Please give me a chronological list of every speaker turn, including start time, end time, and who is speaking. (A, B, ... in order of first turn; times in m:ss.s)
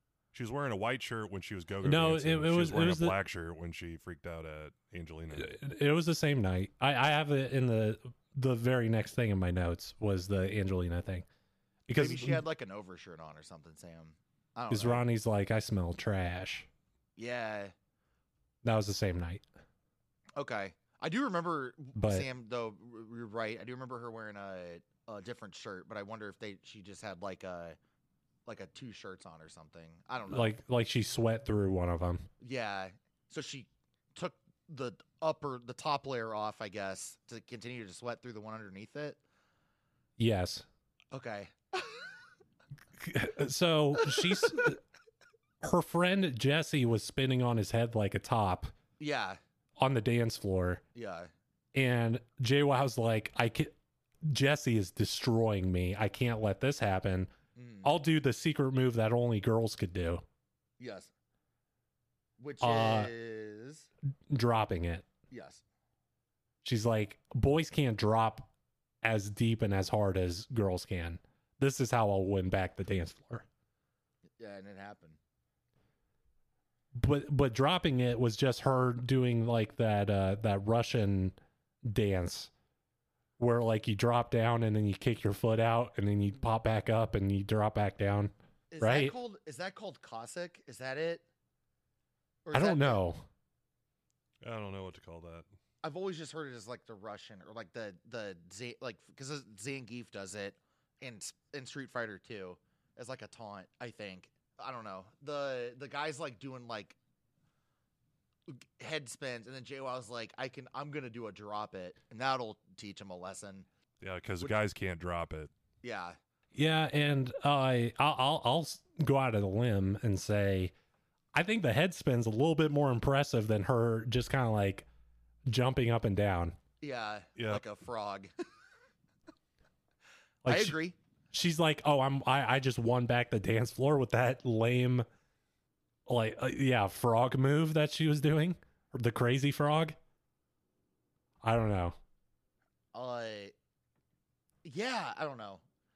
0:00.3-0:05.6 A
0:01.8-0:03.2 B
0:05.4-0:11.3 B
0:11.9-0:12.4 B
0:12.0-0:15.0 C
0:14.7-0:16.7 B
0:17.2-0:17.7 C
0:18.6-0:19.4 B
0:20.4-0:27.8 C
0:22.0-0:22.3 B
0:28.5-0:30.5 C
0:30.3-0:32.3 B
0:32.4-0:39.2 C
0:40.2-0:40.6 B
0:41.1-0:42.1 C
0:43.0-0:44.8 B
0:44.0-0:44.6 C
0:45.6-0:48.7 B
0:49.0-0:49.4 C
0:49.8-0:50.8 B
0:51.0-0:51.3 C
0:51.7-0:53.7 B
0:54.2-0:57.3 B
0:57.6-0:58.0 C
0:57.8-1:00.2 B
1:00.8-1:01.1 C
1:02.4-1:03.9 C
1:02.6-1:03.1 B
1:04.3-1:05.1 B
1:05.3-1:05.6 C
1:06.6-1:08.5 B
1:09.0-1:13.5 B
1:14.4-1:15.2 C
1:17.0-1:22.5 B
1:23.4-1:29.1 B
1:28.7-1:31.2 C
1:32.4-1:33.0 C
1:32.5-1:33.2 B
1:34.4-1:35.5 A
1:35.8-1:47.0 C
1:48.5-1:53.7 C
1:54.0-1:55.5 A
1:55.8-1:56.2 C
1:56.6-2:00.7 B
2:01.3-2:04.9 B
2:05.5-2:06.6 B
2:06.8-2:08.3 C
2:07.4-2:07.6 A
2:10.4-2:10.8 B
2:10.4-2:11.0 C
2:11.3-2:15.1 B
2:16.1-2:20.0 B
2:21.4-2:22.0 B
2:22.9-2:23.5 C
2:24.6-2:25.6 C